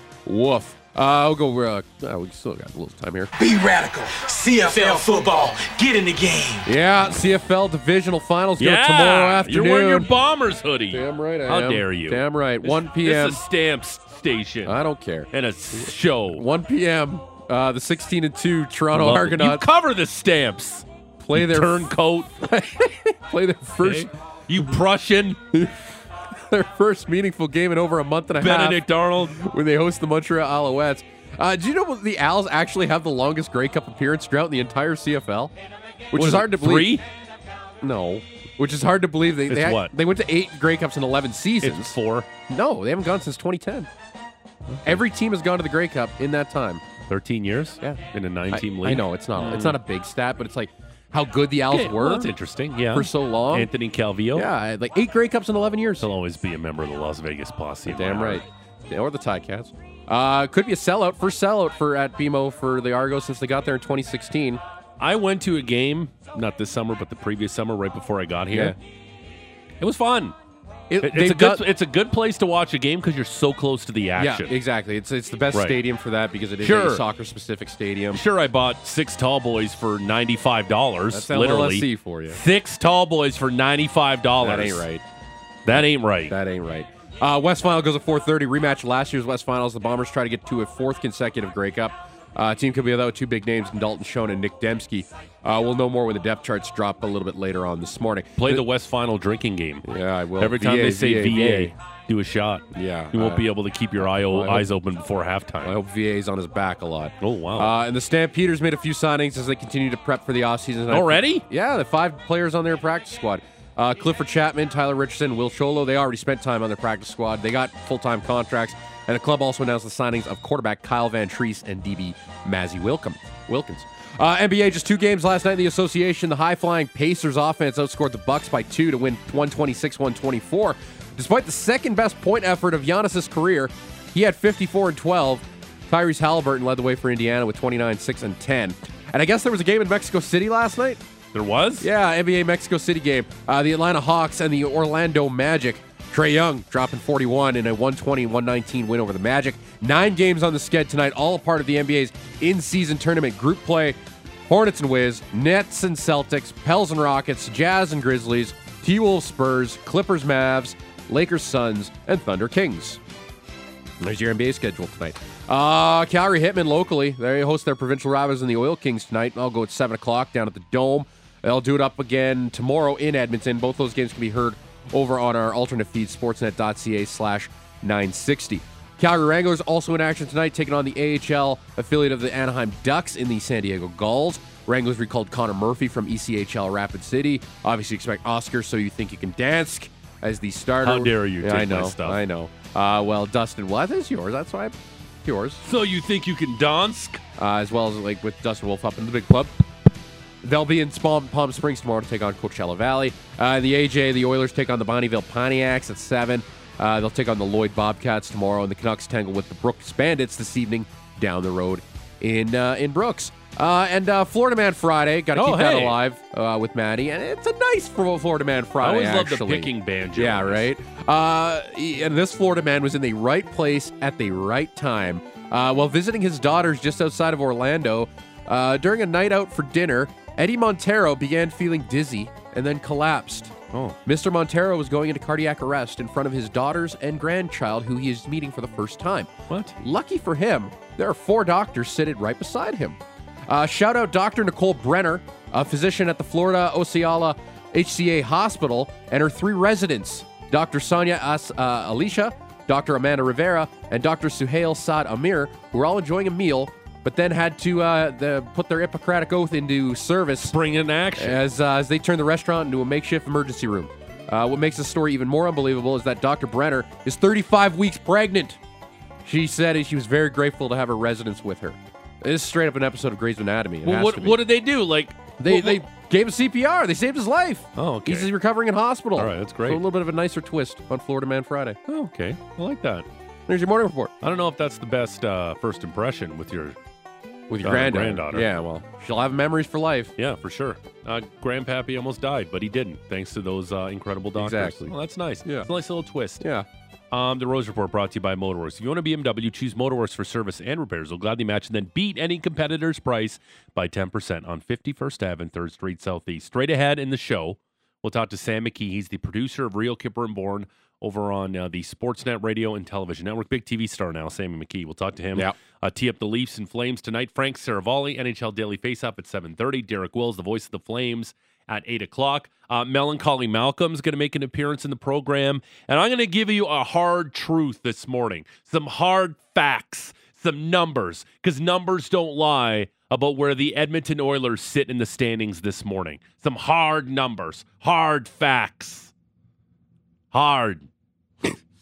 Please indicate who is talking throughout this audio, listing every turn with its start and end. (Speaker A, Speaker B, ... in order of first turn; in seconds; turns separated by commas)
Speaker A: 0.3-3.3, Speaker B: 3.4-6.7, Speaker A: 6.6-10.1, Speaker C: 8.6-14.8, Speaker A: 10.9-13.4, Speaker A: 14.6-15.3, Speaker C: 15.3-16.4, Speaker A: 15.8-19.6, Speaker C: 18.9-22.3, Speaker A: 21.2-21.9, Speaker A: 22.4-24.1, Speaker C: 23.8-25.4, Speaker A: 26.3-35.5, Speaker C: 28.4-29.4, Speaker A: 36.1-37.0, Speaker C: 36.1-37.0, Speaker A: 37.8-42.0, Speaker C: 39.5-39.9, Speaker C: 41.6-42.3, Speaker A: 42.5-43.9, Speaker C: 44.7-45.0, Speaker A: 44.8-46.8, Speaker C: 47.1-49.8, Speaker A: 47.8-52.3, Speaker C: 51.7-54.5, Speaker A: 52.9-53.7, Speaker A: 54.3-56.1, Speaker C: 56.0-58.4, Speaker A: 57.9-64.6, Speaker C: 65.0-68.8, Speaker A: 68.5-68.8, Speaker C: 69.8-70.3, Speaker A: 70.9-71.6, Speaker C: 71.0-74.5, Speaker A: 74.2-78.2, Speaker C: 75.5-75.8, Speaker C: 76.6-77.0, Speaker C: 78.1-84.8, Speaker A: 81.1-82.4, Speaker A: 84.4-85.0, Speaker C: 85.6-86.3, Speaker A: 85.7-98.6, Speaker C: 98.4-99.9, Speaker A: 99.8-101.7, Speaker C: 100.4-105.8, Speaker A: 102.7-103.5, Speaker A: 104.0-104.7, Speaker A: 105.6-141.0, Speaker C: 107.2-107.7, Speaker C: 110.9-111.5, Speaker C: 141.3-141.9, Speaker A: 141.8-163.0, Speaker A: 164.0-195.6, Speaker C: 190.8-192.2, Speaker C: 195.6-197.2, Speaker A: 197.4-199.5, Speaker A: 200.4-260.6, Speaker C: 215.3-216.0, Speaker C: 218.8-220.7, Speaker C: 239.5-239.8, Speaker C: 260.4-261.4, Speaker A: 261.2-268.6, Speaker A: 269.2-274.4, Speaker C: 273.8-275.8, Speaker A: 275.4-281.8, Speaker C: 277.8-278.3, Speaker C: 279.2-279.8, Speaker C: 281.9-283.1, Speaker A: 283.5-284.1, Speaker C: 284.2-286.8, Speaker A: 287.5-290.1, Speaker C: 287.6-288.5, Speaker C: 290.2-296.4, Speaker A: 294.4-294.9, Speaker A: 296.4-296.7, Speaker C: 297.1-339.1, Speaker C: 340.3-340.9